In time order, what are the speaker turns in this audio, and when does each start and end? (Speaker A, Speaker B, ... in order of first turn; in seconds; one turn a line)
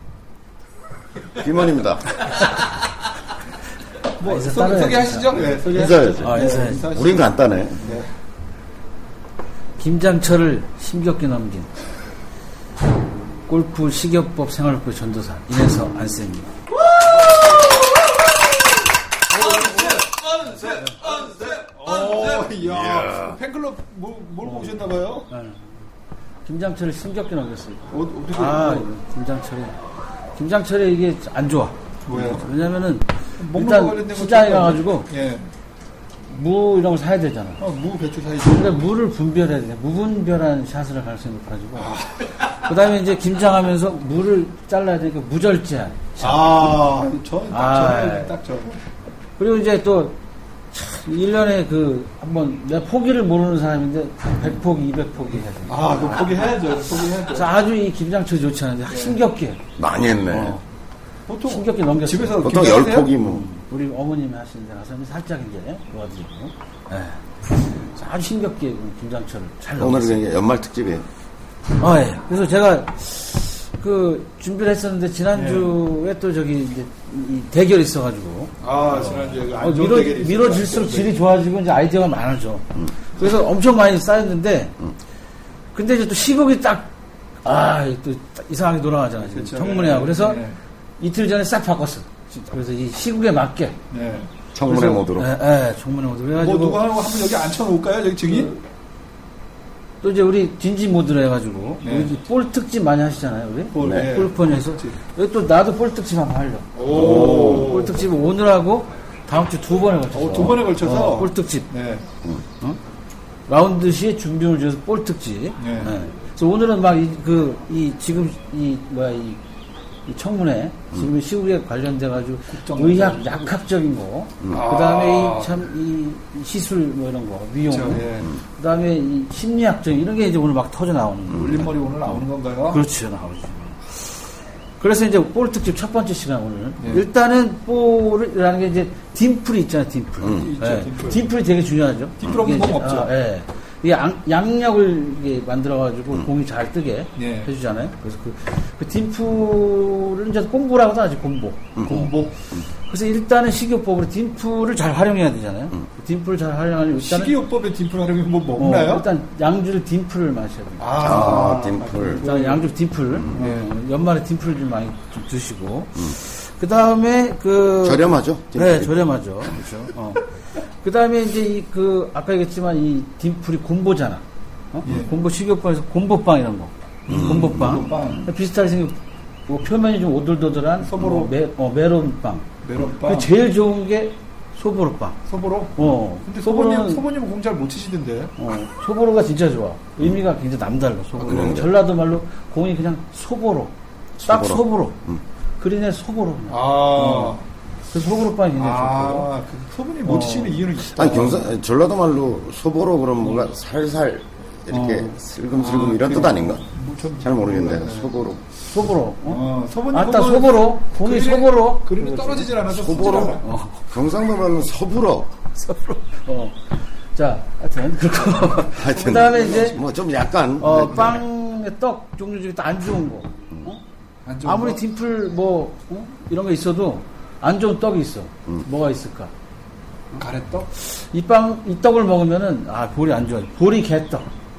Speaker A: 1.3-2.2
Speaker B: 4.2-8.1
Speaker C: 4.2-6.9
Speaker A: 5.6-7.9
Speaker C: 9.8-11.7
Speaker C: 13.5-16.5
Speaker B: 19.3-25.3
Speaker A: 22.6-23.4
Speaker C: 24.4-25.8
Speaker C: 26.4-29.8
Speaker B: 27.9-28.9
Speaker C: 30.3-35.1
Speaker B: 32.1-32.5
Speaker B: 33.4-35.5
Speaker C: 36.3-37.6
Speaker B: 37.6-38.8
Speaker C: 38.4-46.6
Speaker B: 41.8-42.3
Speaker B: 46.2-48.8
Speaker C: 47.5-48.3
Speaker C: 49.4-50.2
Speaker C: 50.7-59.6
Speaker B: 55.7-57.5
Speaker B: 58.9-59.2
Speaker A: 59.8-60.6
Speaker C: 60.3-60.6
Speaker B: 61.3-63.1
Speaker C: 61.4-70.2
Speaker A: 62.4-63.5
Speaker A: 69.8-71.0
Speaker C: 71.8-84.8
Speaker B: 75.3-75.8
Speaker B: 78.6-81.2
Speaker C: 85.7-86.9
Speaker C: 87.4-90.4
Speaker B: 89.2-90.6
Speaker C: 91.0-93.8
Speaker B: 93.9-94.3
Speaker A: 94.5-95.3
Speaker C: 94.6-96.9
Speaker B: 96.3-98.6
Speaker C: 100.0-111.7
Speaker B: 101.8-102.1
Speaker B: 103.7-105.0
Speaker A: 103.8-104.1
Speaker B: 106.7-108.0
Speaker A: 106.9-107.8
Speaker B: 110.1-112.1
Speaker C: 113.5-119.4
Speaker B: 115.6-115.9
Speaker C: 120.0-134.3
Speaker B: 122.5-123.4
Speaker B: 124.5-125.6
Speaker B: 127.7-128.3
Speaker B: 131.3-132.8
Speaker C: 134.8-157.3
Speaker B: 136.8-137.0
Speaker B: 140.2-141.2
Speaker B: 142.2-143.1
Speaker B: 147.2-147.5
Speaker A: 151.8-152.7
Speaker B: 151.8-152.4
Speaker B: 156.9-159.1
Speaker C: 158.6-161.6
Speaker B: 160.8-162.7
Speaker A: 161.0-162.2
Speaker C: 162.2-182.5
Speaker B: 163.3-163.7
Speaker A: 167.8-168.9
Speaker B: 174.8-175.1
Speaker A: 177.1-178.0
Speaker B: 177.1-178.3
Speaker B: 180.8-181.3
Speaker B: 182.6-183.3
Speaker C: 183.0-185.2
Speaker B: 185.3-188.3
Speaker C: 185.8-187.0
Speaker C: 188.4-193.7
Speaker A: 191.2-191.7
Speaker B: 191.2-191.6
Speaker A: 194.2-195.2
Speaker C: 194.3-195.0
Speaker C: 195.6-197.4
Speaker B: 196.5-197.4
Speaker C: 197.9-199.3
Speaker B: 198.5-201.5
Speaker C: 200.0-200.7
Speaker A: 200.9-206.6
Speaker C: 204.7-205.2
Speaker B: 205.5-208.1
Speaker A: 207.2-208.4
Speaker C: 208.7-212.5
Speaker B: 209.2-213.5
Speaker A: 212.7-215.3
Speaker C: 213.4-213.8
Speaker C: 215.5-219.8
Speaker A: 218.7-221.2
Speaker B: 219.1-219.8
Speaker C: 220.6-223.8
Speaker B: 224.2-224.8
Speaker C: 224.4-229.3
Speaker B: 230.2-230.7
Speaker C: 230.7-234.3